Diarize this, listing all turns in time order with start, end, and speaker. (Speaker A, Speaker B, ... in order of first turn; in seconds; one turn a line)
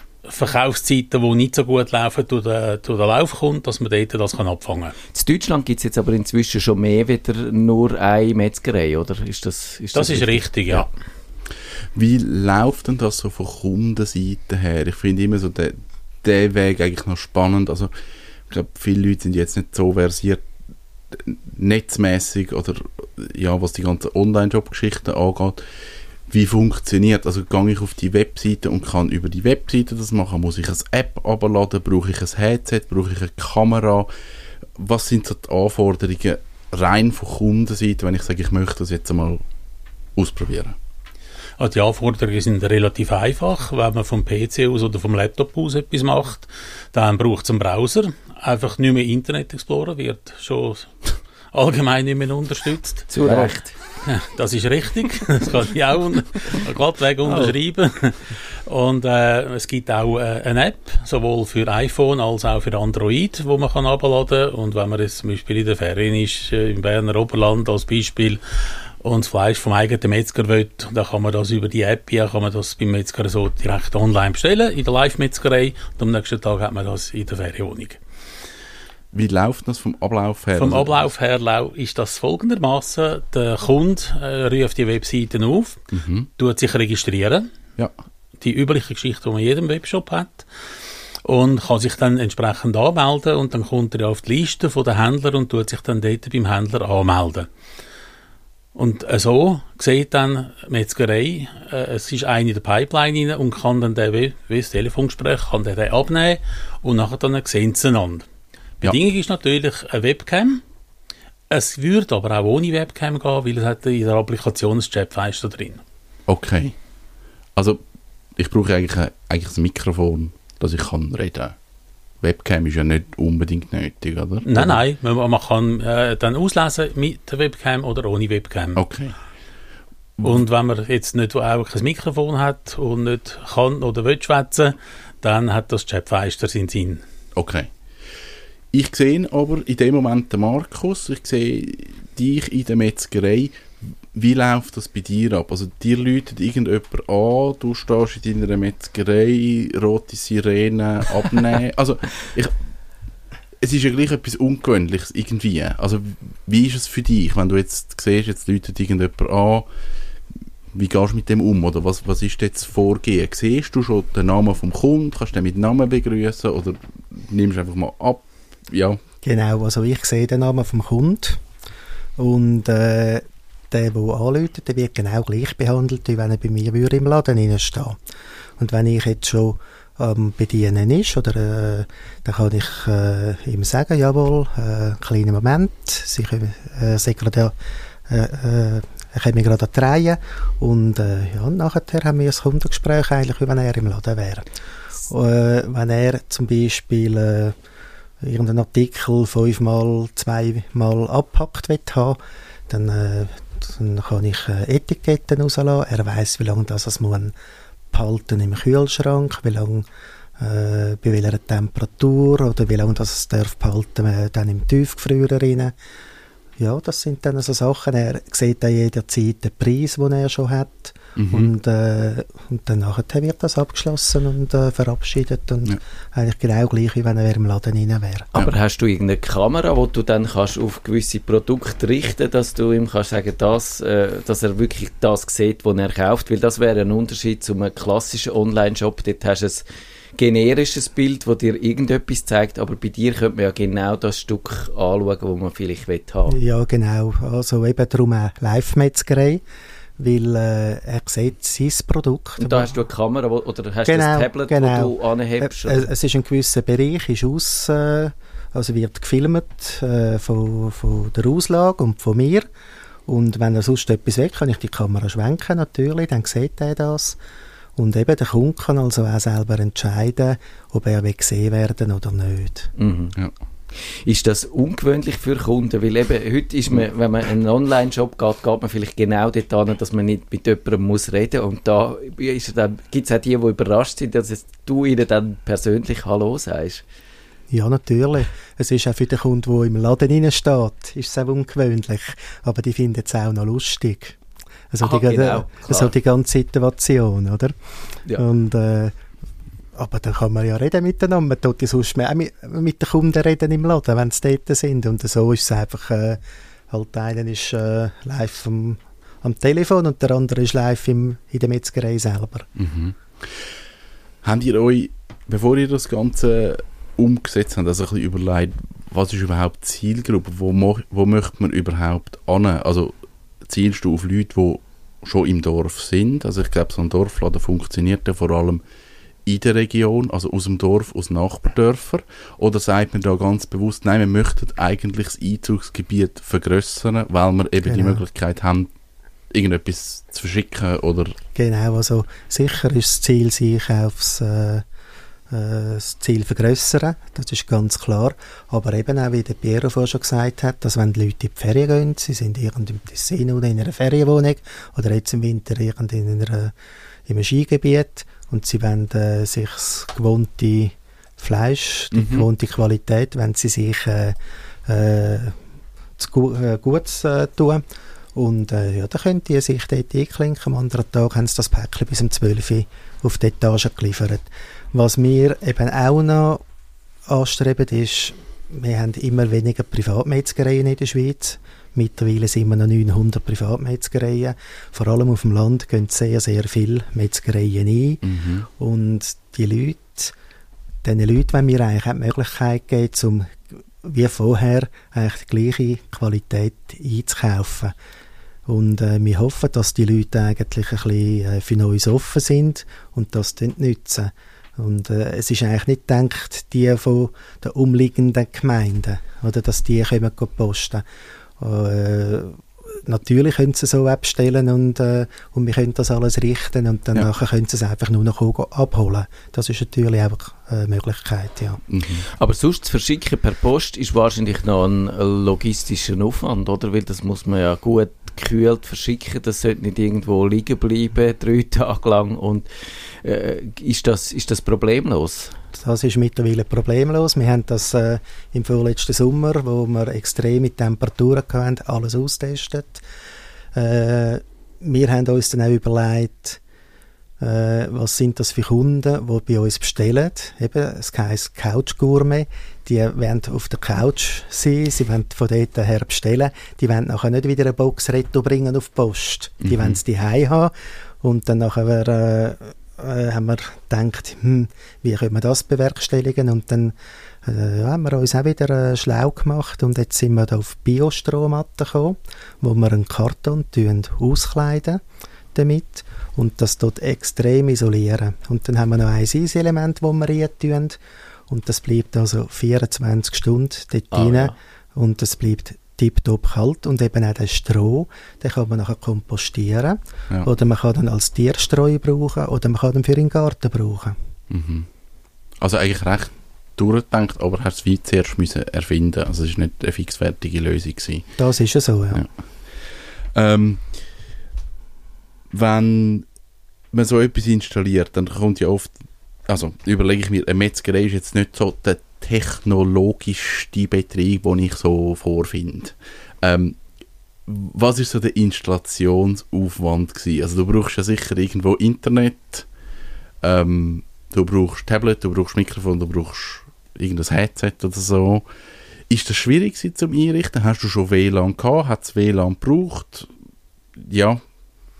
Speaker A: 0.2-4.9
Speaker B: 5.1-10.9
Speaker A: 9.9-10.9
Speaker C: 11.9-17.9
Speaker C: 18.5-20.4
Speaker C: 21.1-25.6
Speaker C: 26.3-34.1
Speaker C: 34.8-39.4
Speaker C: 40.1-40.8
Speaker A: 41.6-50.9
Speaker A: 51.5-68.4
Speaker B: 53.1-53.7
Speaker A: 69.0-78.0
Speaker C: 79.1-81.1
Speaker A: 80.5-85.8
Speaker C: 85.9-86.3
Speaker A: 86.4-87.5
Speaker A: 88.4-90.5
Speaker A: 91.2-97.5
Speaker A: 98.7-108.2
Speaker A: 108.8-110.6
Speaker A: 111.5-115.8
Speaker C: 116.3-116.7
Speaker C: 118.4-121.5
Speaker C: 122.2-124.8
Speaker A: 124.4-128.8
Speaker C: 128.8-129.1
Speaker A: 130.2-137.0
Speaker C: 137.3-137.7
Speaker C: 138.7-143.6
Speaker C: 144.1-152.5
Speaker C: 153.6-159.7
Speaker C: 160.7-169.0
Speaker D: 169.2-171.4
Speaker D: 172.2-178.0
Speaker D: 178.6-187.5
Speaker D: 188.1-194.5
Speaker D: 195.1-197.6
Speaker D: 198.2-202.2
Speaker D: 202.7-207.3
Speaker D: 207.9-209.8
Speaker D: 210.4-215.7
Speaker D: 216.6-228.3
Speaker C: 221.2-221.5
Speaker B: 228.3-239.6
Speaker B: 240.2-246.4
Speaker D: 246.3-249.4
Speaker D: 250.0-252.7
Speaker B: 252.4-255.9
Speaker D: 253.8-262.5
Speaker D: 263.1-267.2
Speaker D: 267.8-272.7
Speaker B: 272.8-273.1
Speaker B: 274.0-286.8
Speaker D: 287.5-294.2
Speaker D: 294.7-297.5
Speaker B: 294.8-295.9
Speaker D: 298.2-299.0
Speaker D: 299.7-312.5
Speaker C: 312.6-313.4
Speaker C: 314.2-322.9
Speaker C: 323.4-328.6
Speaker C: 329.2-338.7
Speaker D: 337.6-338.0
Speaker C: 339.3-341.1
Speaker D: 341.3-344.6
Speaker D: 345.3-356.5
Speaker D: 357.1-365.4
Speaker C: 361.9-362.2
Speaker D: 366.0-367.6
Speaker D: 368.1-376.4
Speaker D: 377.1-388.0
Speaker C: 388.0-388.5
Speaker D: 388.6-390.1
Speaker D: 390.8-397.7
Speaker D: 398.5-410.8
Speaker D: 411.4-421.6
Speaker C: 421.7-422.0
Speaker B: 422.2-432.4
Speaker B: 433.0-435.3
Speaker D: 435.5-442.8
Speaker D: 443.5-446.4
Speaker D: 447.2-474.8
Speaker C: 459.4-459.8
Speaker D: 475.3-480.8
Speaker D: 481.3-493.9
Speaker B: 483.9-484.3
Speaker C: 494.3-494.7
Speaker C: 495.4-501.1
Speaker D: 501.2-502.0
Speaker C: 503.1-503.6
Speaker C: 505.3-506.0
Speaker C: 506.7-508.7
Speaker C: 509.3-516.6
Speaker C: 517.3-522.5
Speaker C: 523.2-528.2
Speaker C: 528.9-533.1
Speaker C: 533.8-534.2